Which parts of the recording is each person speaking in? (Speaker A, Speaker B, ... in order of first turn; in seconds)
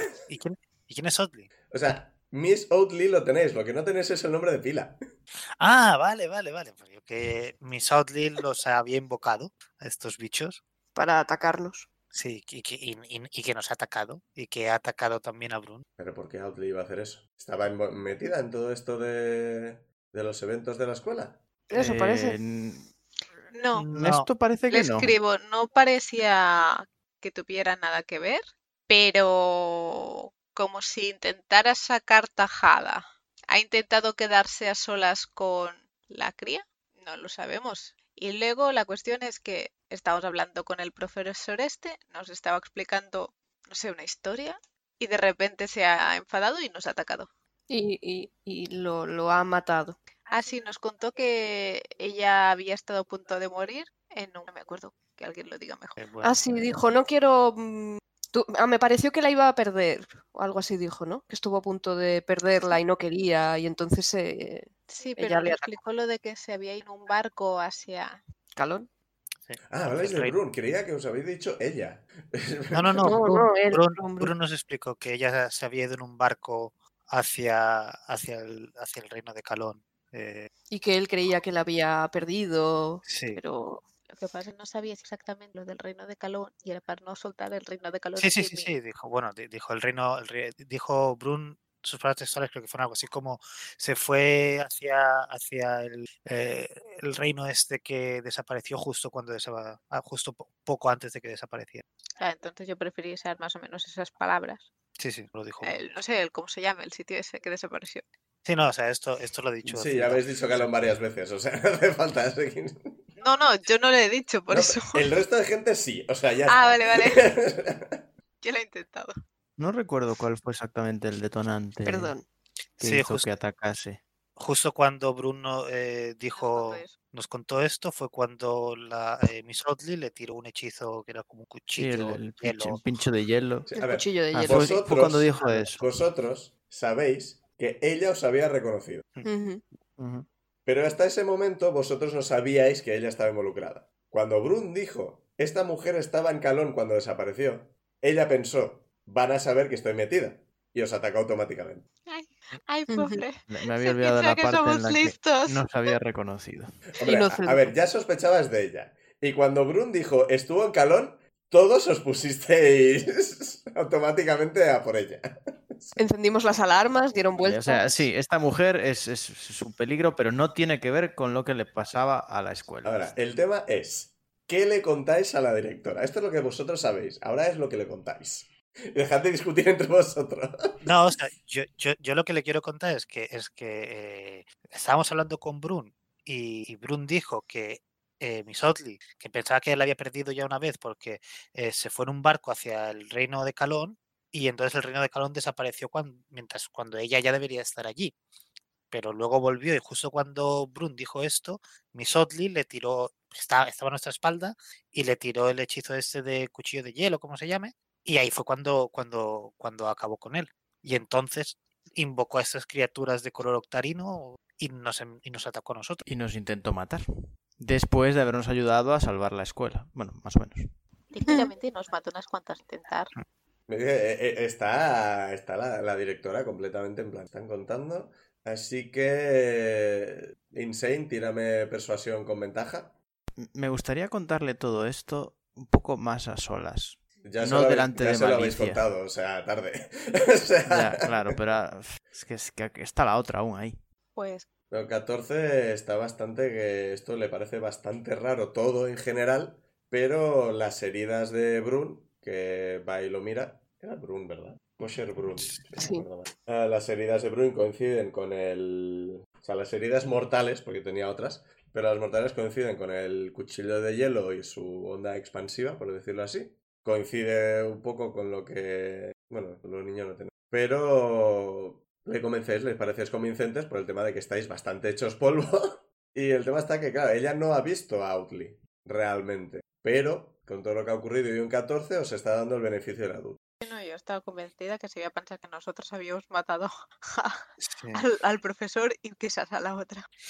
Speaker A: 0.3-1.5, 5.6-10.6, 12.1-15.8, 23.7-24.3, 56.0-56.8, 69.5-70.4, 72.7-80.5, 83.0-83.4, 88.2-101.8, 105.0-105.8, 108.4-110.6, 122.8-123.3, 124.4-132.8, 140.0-140.2, 180.8-198.1, 198.9-216.1, 287.6-288.0
Speaker B: 1.7-5.0, 16.0-21.4, 69.7-73.2, 109.7-113.0, 114.5-118.0, 133.7-139.0, 140.7-151.9, 157.0-166.0, 172.8-180.8, 223.7-232.9, 237.2-241.4, 244.7-283.4
Speaker C: 10.9-11.9, 21.7-22.4, 47.7-50.0, 56.2-65.7, 68.5-68.9, 73.0-74.3, 80.7-83.8, 121.8-122.2, 133.7-134.7, 139.2-139.6, 152.9-153.2, 157.0-157.7, 166.0-168.1, 255.8-256.0
Speaker D: 21.7-22.9, 23.9-25.1, 119.6-122.1, 122.8-124.0, 131.8-133.7, 134.3-135.8, 153.5-156.8, 167.4-173.1, 216.1-217.0, 217.6-220.7, 233.4-238.8, 240.7-243.8
Speaker E: 23.5-23.9, 24.7-47.3, 50.3-56.0, 64.9-68.2, 84.1-88.7, 102.2-104.7, 105.6-108.0, 113.2-115.1, 116.5-117.3, 118.4-119.1, 126.3-127.0, 152.1-155.6, 221.1-223.1, 244.2-244.5, 283.6-290.1